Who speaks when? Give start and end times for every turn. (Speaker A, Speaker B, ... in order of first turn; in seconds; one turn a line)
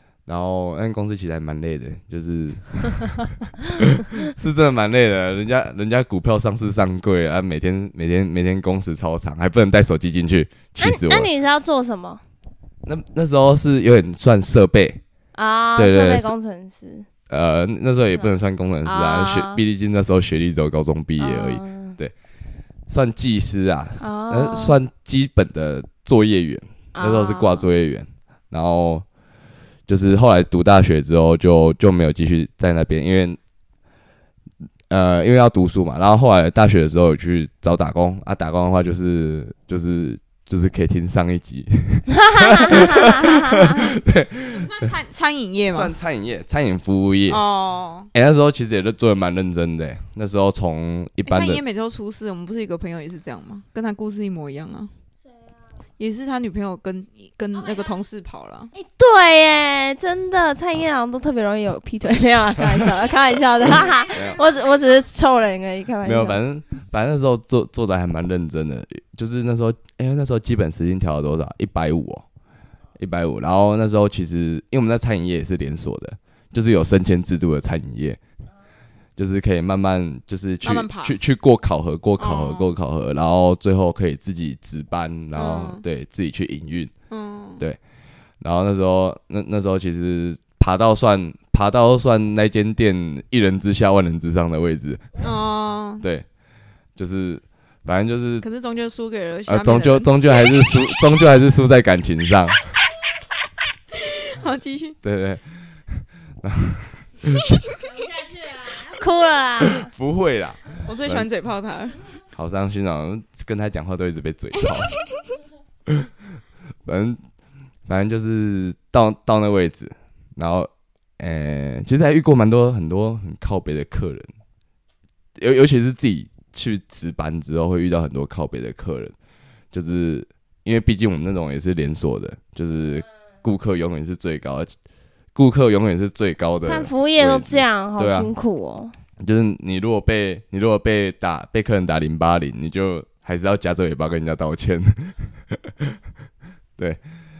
Speaker A: 0.3-3.2
Speaker A: 4.2-11.3
Speaker B: 10.8-12.2
Speaker A: 12.8-15.0
Speaker B: 15.3-17.1
Speaker A: 15.8-16.3
Speaker A: 17.3-22.1
Speaker B: 18.8-19.6
Speaker B: 21.2-22.0
Speaker A: 22.9-29.1
Speaker B: 24.0-24.8
Speaker B: 26.9-27.7
Speaker A: 29.9-33.4
Speaker A: 34.9-44.9
Speaker B: 42.1-43.9
Speaker C: 44.5-45.9
Speaker A: 45.7-47.4
Speaker C: 47.3-48.1
Speaker A: 48.1-51.6
Speaker C: 51.2-54.9
Speaker C: 56.0-58.7
Speaker B: 58.7-66.4
Speaker A: 64.1-64.4
Speaker A: 66.0-72.2
Speaker A: 73.0-78.2
Speaker A: 79.2-86.9
Speaker C: 80.6-81.2
Speaker C: 82.2-82.7
Speaker C: 85.3-85.8
Speaker C: 87.1-87.6
Speaker A: 88.4-95.2
Speaker C: 95.2-96.1
Speaker A: 96.0-96.3
Speaker A: 97.0-98.5
Speaker C: 98.4-100.7
Speaker A: 99.5-102.7
Speaker C: 103.9-105.0
Speaker A: 105.0-107.6
Speaker B: 108.0-109.9
Speaker A: 109.8-111.3
Speaker C: 110.8-112.0
Speaker A: 112.3-115.0
Speaker C: 114.6-115.1
Speaker A: 116.8-117.2
Speaker A: 117.9-124.3
Speaker A: 125.4-129.2
Speaker A: 129.7-134.7
Speaker A: 135.3-138.3
Speaker B: 136.7-138.9
Speaker A: 139.2-146.0